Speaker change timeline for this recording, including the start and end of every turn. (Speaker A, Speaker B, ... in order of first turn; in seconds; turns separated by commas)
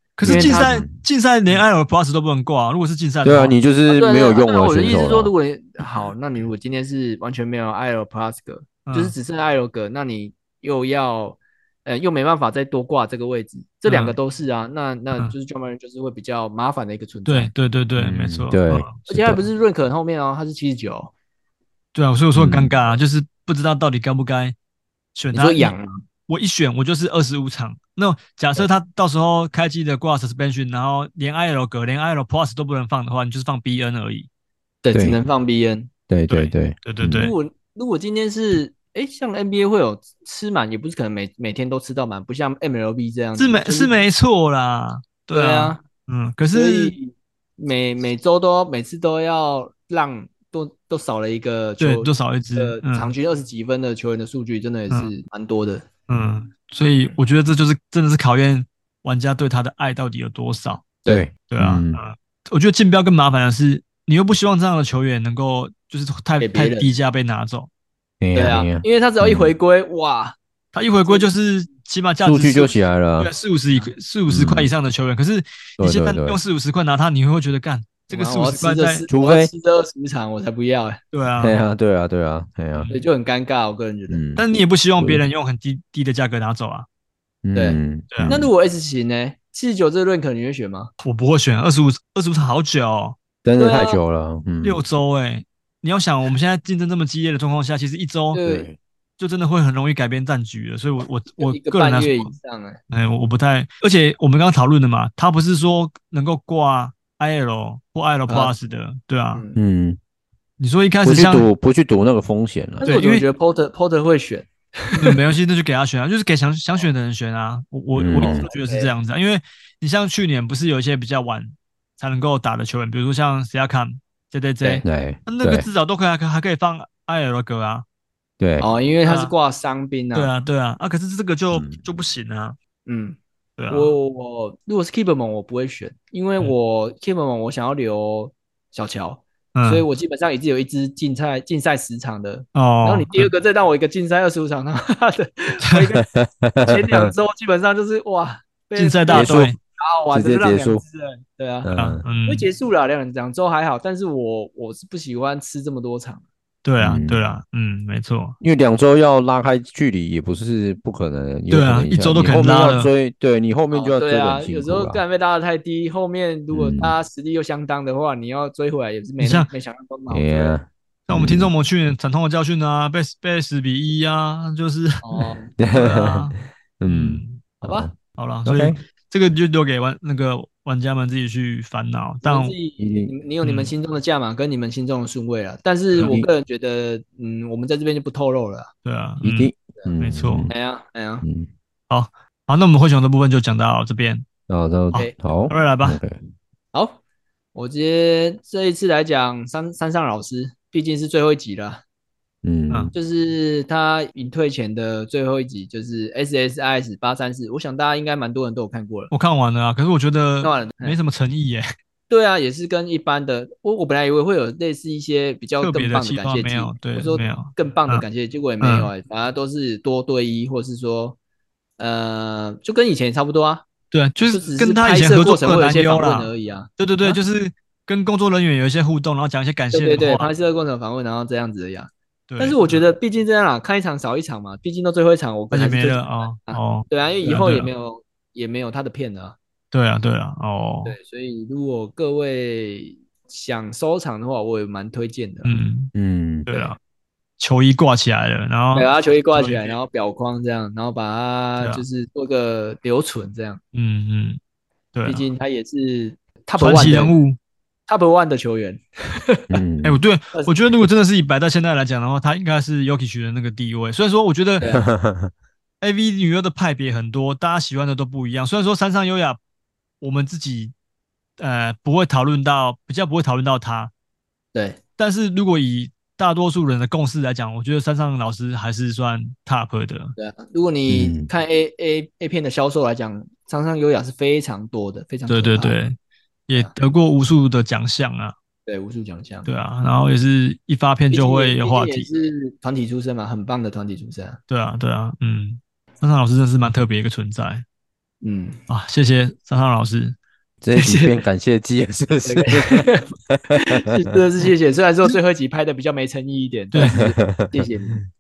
Speaker A: 0.2-3.6, Speaker B: 0.2-0.9, Speaker C: 0.2-0.7, Speaker B: 3.2-5.3, Speaker C: 3.9-17.5, Speaker A: 8.8-9.1, Speaker A: 13.9-14.2, Speaker A: 17.3-19.0, Speaker B: 18.0-19.4, Speaker C: 19.1-21.1, Speaker A: 21.9-24.5, Speaker B: 22.4-22.7, Speaker A: 25.1-25.7, Speaker C: 25.3-26.0, Speaker A: 26.3-34.3, Speaker C: 34.8-35.9, Speaker B: 36.1-37.3, Speaker A: 36.3-37.4, Speaker C: 37.1-43.9, Speaker A: 43.4-46.9, Speaker C: 45.3-45.8, Speaker C: 46.5-55.9, Speaker A: 51.8-53.1, Speaker A: 56.1-60.9, Speaker B: 61.1-62.0, Speaker A: 61.5-67.7, Speaker C: 66.4-66.9, Speaker B: 68.2-69.5, Speaker C: 68.3-70.4, Speaker A: 70.7-79.0, Speaker B: 72.2-73.3, Speaker B: 74.3-74.7, Speaker B: 75.8-76.4, Speaker C: 78.1-81.0, Speaker B: 79.1-79.5, Speaker A: 81.1-81.6, Speaker B: 81.4-82.9, Speaker A: 82.7-83.0, Speaker C: 82.9-84.2, Speaker B: 84.1-84.5, Speaker A: 84.4-86.9, Speaker B: 87.4-88.5, Speaker C: 87.5-90.9, Speaker A: 88.1-88.4, Speaker A: 91.0-93.2, Speaker B: 93.4-94.8, Speaker C: 93.6-94.0, Speaker A: 94.6-98.4, Speaker C: 98.3-98.7, Speaker B: 98.4-98.8, Speaker A: 99.2-102.3, Speaker C: 101.4-102.8, Speaker A: 102.9-109.4, Speaker C: 108.3-108.5, Speaker B: 109.5-110.0, Speaker A: 110.6-111.5, Speaker B: 111.0-112.9, Speaker A: 112.8-113.2, Speaker C: 112.8-115.2, Speaker A: 114.9-127.8, Speaker B: 117.9-118.4, Speaker C: 118.2-118.9, Speaker B: 124.8-125.7, Speaker B: 128.4-128.7, Speaker C: 128.6-130.3, Speaker A: 129.0-129.3, Speaker A: 130.1-132.6, Speaker B: 131.5-131.8, Speaker C: 132.9-133.2, Speaker A: 133.6-133.9, Speaker C: 133.7-146.0, Speaker A: 139.5-139.9, Speaker A: 142.5-143.3, Speaker B: 146.1-147.1, Speaker C: 146.7-156.2, Speaker A: 148.7-149.6, Speaker B: 149.1-149.6, Speaker B: 150.1-150.8, Speaker B: 151.6-152.0, Speaker A: 151.7-152.5, Speaker A: 156.6-158.4, Speaker B: 156.8-157.2, Speaker B: 158.4-165.0, Speaker A: 161.5-162.9, Speaker C: 163.7-170.5, Speaker B: 166.5-166.9, Speaker A: 169.2-169.5, Speaker B: 170.1-171.5, Speaker A: 171.1-175.0, Speaker C: 175.0-175.5, Speaker B: 175.6-177.9, Speaker A: 175.7-177.4, Speaker C: 177.6-177.9, Speaker A: 178.1-182.6, Speaker B: 178.4-178.8, Speaker C: 182.2-188.7, Speaker B: 182.8-183.1, Speaker A: 183.4-183.7, Speaker B: 186.0-186.2, Speaker A: 188.8-190.5, Speaker B: 189.2-190.5, Speaker C: 190.5-191.2, Speaker B: 191.2-191.5, Speaker A: 191.9-194.2, Speaker B: 194.5-196.2, Speaker A: 194.9-196.0, Speaker C: 196.7-197.0, Speaker C: 197.5-201.8, Speaker B: 202.4-202.9, Speaker A: 202.7-202.9, Speaker C: 202.9-209.1, Speaker A: 209.1-211.7, Speaker C: 210.4-210.9, Speaker C: 212.1-221.2, Speaker A: 215.6-218.1, Speaker A: 218.6-218.9, Speaker C: 221.8-223.7, Speaker A: 223.9-230.3, Speaker C: 224.3-227.2, Speaker C: 229.7-239.4, Speaker A: 232.3-232.8, Speaker A: 235.5-237.7, Speaker A: 239.7-240.9, Speaker C: 240.9-245.6, Speaker A: 245.4-245.9, Speaker B: 245.9-246.5, Speaker A: 246.5-246.8, Speaker C: 246.5-246.8, Speaker A: 247.4-249.8, Speaker C: 248.7-253.6, Speaker A: 253.7-254.4, Speaker A: 254.9-255.2, Speaker C: 255.1-257.1, Speaker A: 256.6-257.4, Speaker C: 257.9-259.5, Speaker B: 259.5-260.0, Speaker A: 259.8-264.6, Speaker B: 264.6-265.3, Speaker A: 265.8-269.4, Speaker A: 270.0-270.7, Speaker A: 271.4-273.9, Speaker C: 274.5-274.8, Speaker A: 275.0-280.1, Speaker C: 280.2-285.7, Speaker B: 280.9-281.3, Speaker A: 285.3-285.9, Speaker A: 286.5-288.3, Speaker C: 288.6-289.5, Speaker A: 289.4-292.1, Speaker C: 291.1-294.4, Speaker A: 294.5-297.6, Speaker C: 298.2-298.6, Speaker A: 298.7-300.2, Speaker B: 300.6-303.8, Speaker C: 300.8-301.1, Speaker C: 302.2-308.0, Speaker A: 306.7-307.0, Speaker B: 306.8-307.5